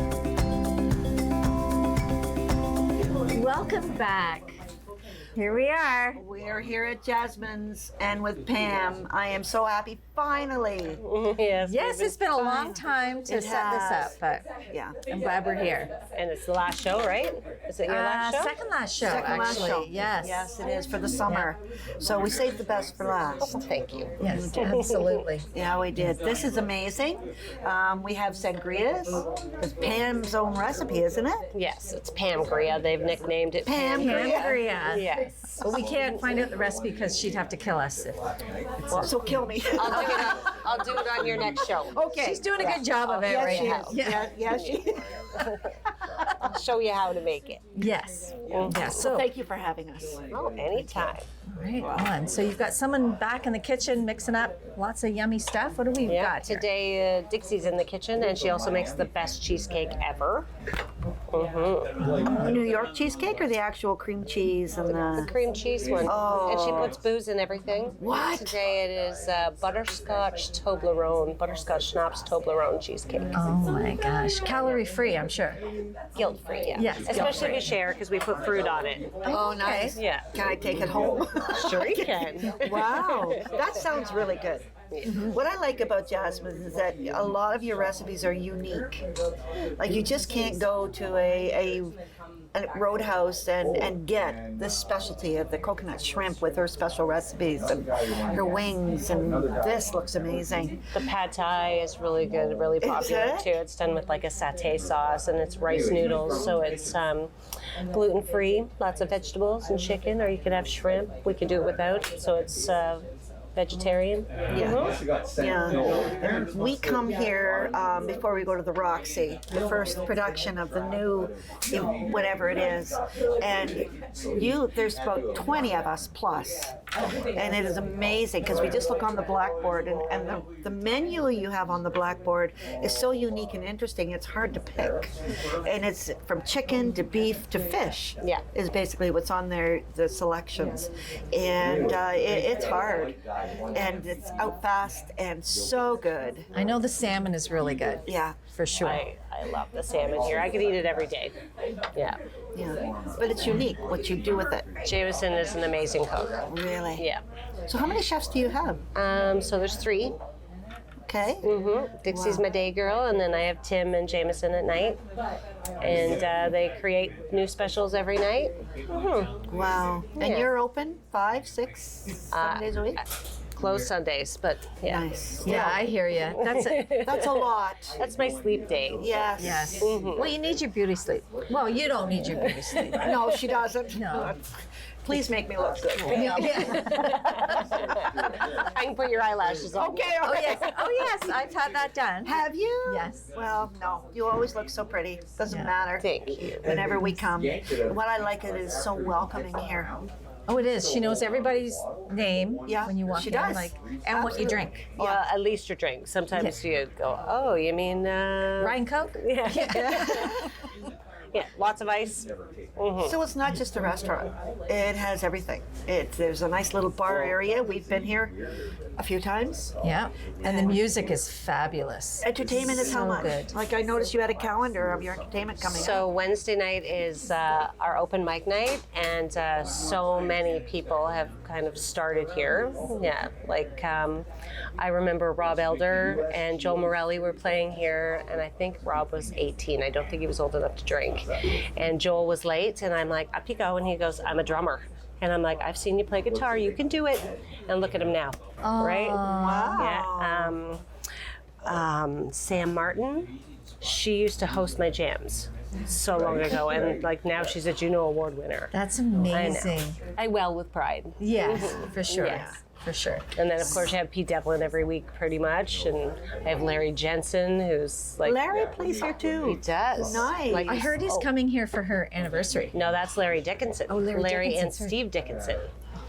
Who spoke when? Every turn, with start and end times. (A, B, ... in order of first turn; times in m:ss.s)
0:03.3-0:04.6 A
0:05.3-0:06.2 A
0:06.2-0:11.0 B
0:11.0-0:12.7 C
0:11.6-0:14.4 A
0:12.5-0:14.1 B
0:14.7-0:15.0 B
0:15.1-0:15.9 A
0:16.1-0:18.6 C
0:17.8-0:20.5 A
0:19.0-0:23.6 B
0:23.5-0:24.1 C
0:24.2-0:26.2 A
0:24.3-0:24.9 B
0:25.5-0:31.4 B
0:31.5-0:35.8 C
0:33.6-0:34.6 B
0:33.9-0:38.2 A
0:39.0-0:40.4 B
0:39.8-0:42.1 C
0:41.9-0:45.1 B
0:42.2-0:44.3 A
0:42.6-0:44.9 C
0:46.4-0:47.6 C
0:47.8-0:49.3 A
0:48.5-0:48.8 C
0:48.9-0:50.2 B
0:50.3-0:51.2 C
0:51.5-0:56.7 A
0:56.1-1:00.5 C
1:01.3-1:01.9 C
1:02.1-1:02.5 A
1:02.1-1:05.3 B
1:05.1-1:13.4 C
1:06.0-1:07.0 B
1:08.0-1:08.6 B
1:13.3-1:15.6 A
1:16.2-1:19.1 C
1:16.8-1:17.7 A
1:19.3-1:20.0 A
1:19.3-1:29.0 B
1:20.0-1:20.3 C
1:21.6-1:23.3 C
1:25.0-1:25.3 A
1:29.8-1:32.0 B
1:32.5-1:40.8 B
1:40.9-1:47.3 C
1:42.8-1:43.5 B
1:47.9-1:55.0 C
1:54.5-1:54.9 B
1:55.4-2:06.8 B
2:07.4-2:15.1 B
2:15.6-2:23.2 B
2:23.7-2:26.5 B
2:26.5-2:29.0 A
2:28.0-2:28.4 B
2:28.8-2:31.3 C
2:32.5-2:34.7 B
2:34.8-2:36.4 C
2:36.5-2:37.0 B
2:37.0-2:37.2 C
2:37.7-2:38.8 B
2:38.9-2:40.2 C
2:41.1-2:41.4 B
2:41.4-2:45.0 C
2:42.1-2:42.4 B
2:45.8-2:49.3 C
2:49.5-2:53.0 B
2:50.2-2:50.5 C
2:52.3-2:55.0 C
2:54.8-2:55.8 B
2:55.4-2:57.0 A
2:56.5-2:57.3 C
2:56.9-2:57.9 B
2:58.0-2:59.2 C
2:59.0-2:59.8 B
2:59.4-3:04.3 A
2:59.8-3:00.3 C
3:03.0-3:04.4 B
3:05.0-3:07.1 B
3:06.0-3:11.1 C
3:06.1-3:07.7 A
3:09.8-3:10.7 B
3:10.2-3:13.2 A
3:12.2-3:20.0 B
3:15.5-3:15.7 A
3:16.0-3:16.8 C
3:16.8-3:17.2 A
3:20.5-3:24.8 A
3:22.7-3:25.2 B
3:25.0-3:30.5 C
3:28.6-3:30.2 A
3:29.8-3:30.5 B
3:31.3-3:33.2 C
3:33.0-3:38.4 B
3:39.0-3:39.7 B
3:39.8-3:43.6 A
3:40.4-3:40.8 B
3:42.2-3:46.1 B
3:45.6-3:54.2 C
3:54.8-4:10.8 C
4:08.6-4:09.9 A
4:09.3-4:10.6 B
4:11.6-4:18.7 C
4:18.7-4:20.0 A
4:19.3-4:22.5 C
4:21.2-4:23.3 A
4:22.2-4:22.6 B
4:23.4-4:28.4 C
4:28.2-4:30.7 B
4:29.4-4:31.3 C
4:30.6-4:32.8 A
4:32.7-4:35.7 C
4:33.9-4:34.9 A